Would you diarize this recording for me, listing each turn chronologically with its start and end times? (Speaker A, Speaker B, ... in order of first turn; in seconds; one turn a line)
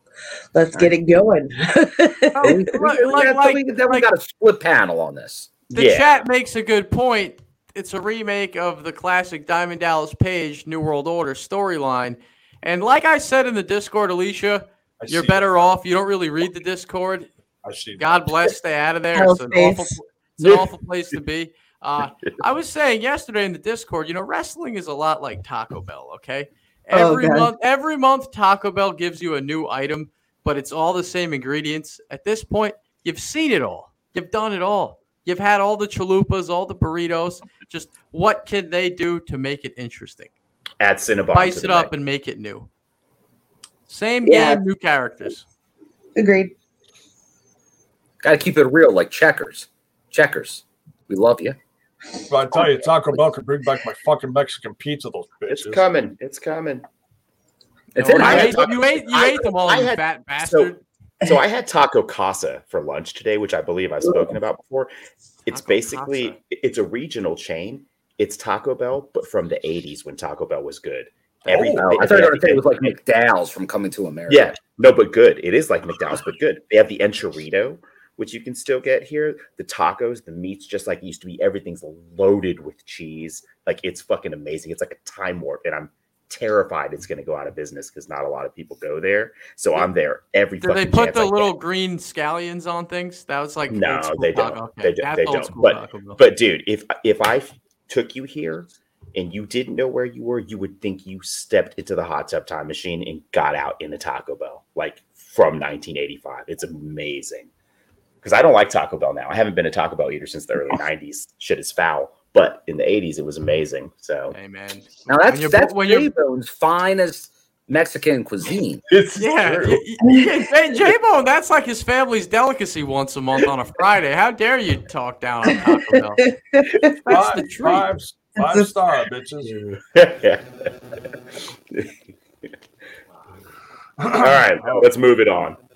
Speaker A: 0.5-2.6
Speaker B: 2.4-4.1
Speaker C: 2.4-5.6
Speaker D: 5.7-6.3
Speaker B: 5.7-17.3
Speaker E: 15.0-15.7
Speaker E: 17.6-18.3
Speaker B: 18.0-40.3
Speaker A: 19.1-20.0
Speaker D: 20.4-20.7
Speaker A: 26.9-27.5
Speaker D: 40.8-41.9
Speaker B: 41.3-42.7
Speaker B: 43.9-45.4
Speaker A: 44.2-44.6
Speaker A: 46.2-46.5
Speaker C: 48.2-51.6
Speaker E: 52.3-55.8
Speaker D: 55.5-56.9
Speaker B: 57.9-60.8
Speaker C: 58.0-58.7
Speaker D: 58.2-64.9
Speaker D: 65.5-72.9
Speaker B: 65.5-66.4
Speaker B: 71.5-71.8
Speaker E: 71.5-71.8
Speaker C: 71.8-74.5
Speaker D: 74.3-91.5
Speaker B: 90.6-96.2
Speaker D: 93.7-107.5
Speaker D: 108.2-114.4
Speaker B: 114.3-116.1
Speaker C: 115.1-118.8
Speaker D: 118.9-119.8
Speaker B: 119.2-126.2
Speaker A: 125.7-126.0
Speaker B: 127.1-127.9
Speaker E: 127.1-129.5
Speaker A: 128.4-128.7
Speaker D: 129.4-130.5
Speaker E: 134.0-134.8
Speaker D: 134.1-135.6